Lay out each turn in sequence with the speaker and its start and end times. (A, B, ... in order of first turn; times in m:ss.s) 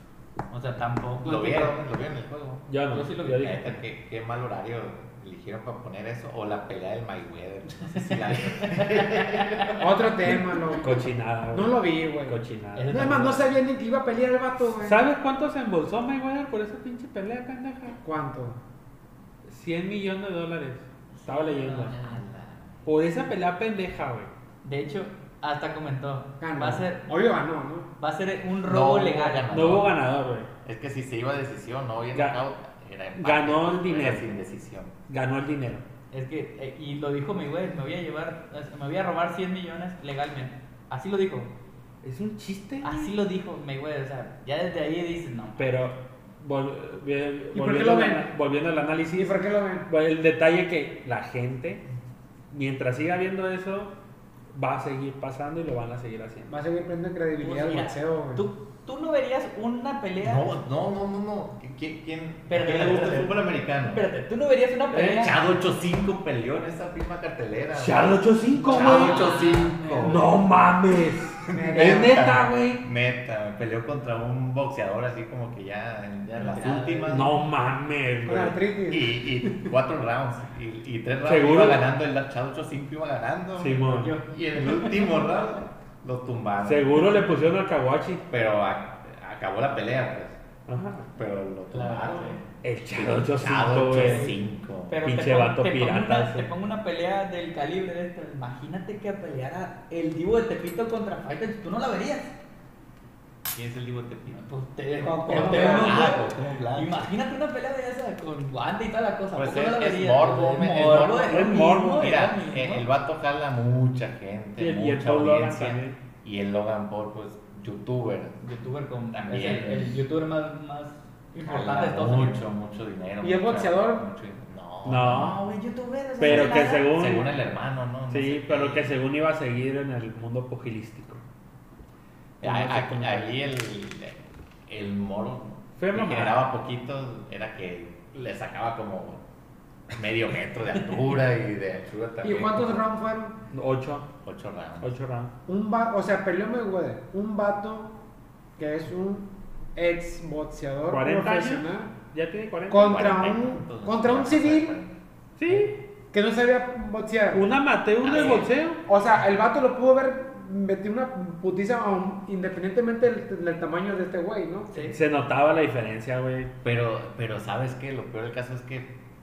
0:00.5-0:01.7 A
0:01.2-0:02.7 B
0:02.7-0:03.7 C
0:02.9-0:03.7 A
0:03.3-0:09.9 B
0:07.8-0:09.9 A
0:09.8-0:15.0 D
0:10.8-0:13.0 C
0:12.8-0:13.6 A
0:14.8-0:18.0 C
0:18.0-0:18.6 D
0:19.4-0:21.9 C
0:21.2-0:22.2 A
0:21.9-0:22.8 B
0:22.8-0:24.3 C
0:24.6-0:27.1 A
0:26.4-0:27.9 D
0:28.0-0:29.4 A
0:28.6-0:29.9 B
0:29.5-0:30.5 C
0:30.6-0:34.9 B
0:33.2-0:34.3 C
0:35.1-0:35.8 C
0:36.1-0:41.5 A
0:42.0-0:43.1 C
0:42.8-0:45.6 A
0:45.6-0:51.8 C
0:47.5-0:48.3 D
0:49.2-0:49.9 D
0:52.5-0:53.9 C
0:54.5-0:56.5 C
0:56.5-0:58.4 D
0:57.4-1:00.5 A
1:00.2-1:04.0 B
1:02.5-1:05.4 A
1:04.9-1:05.3 C
1:05.1-1:10.3 B
1:07.7-1:09.2 C
1:08.7-1:10.3 A
1:10.0-1:12.8 C
1:11.4-1:17.3 B
1:11.5-1:12.2 D
1:16.4-1:17.3 A
1:17.1-1:18.6 C
1:18.2-1:19.6 D
1:18.9-1:27.2 B
1:21.2-1:21.8 C
1:23.6-1:24.1 C
1:23.8-1:25.6 A
1:26.6-1:28.2 C
1:28.3-1:30.4 B
1:30.7-1:31.1 C
1:31.2-1:35.0 B
1:31.7-1:32.4 A
1:32.6-1:34.3 C
1:33.9-1:42.3 A
1:35.0-1:36.5 C
1:43.5-1:44.4 B
1:44.3-1:52.8 A
1:45.0-1:46.2 D
1:45.3-1:47.1 B
1:49.3-1:58.4 B
1:51.3-1:52.1 C
1:54.6-1:56.0 C
1:58.4-2:02.4 A
1:59.1-2:00.0 B
2:01.4-2:05.5 B
2:03.2-2:04.0 D
2:04.8-2:05.4 C
2:05.1-2:06.9 A
2:06.2-2:07.3 C
2:06.2-2:08.9 B
2:08.1-2:11.2 C
2:12.4-2:19.2 B
2:12.4-2:12.9 C
2:12.8-2:13.2 D
2:15.8-2:16.4 C
2:19.9-2:22.8 B
2:22.2-2:23.4 D
2:23.5-2:24.1 C
2:24.2-2:24.9 B
2:24.8-2:25.3 C
2:25.5-2:28.0 D
2:28.6-2:31.9 D
2:30.9-2:33.0 C
2:32.7-2:34.7 D
2:32.8-2:35.0 B
2:35.4-2:35.7 C
2:36.1-2:37.4 D
2:37.3-2:38.8 C
2:38.0-2:38.5 B
2:38.8-2:44.8 D
2:44.7-2:45.0 A
2:44.9-2:46.5 C
2:46.6-2:48.9 B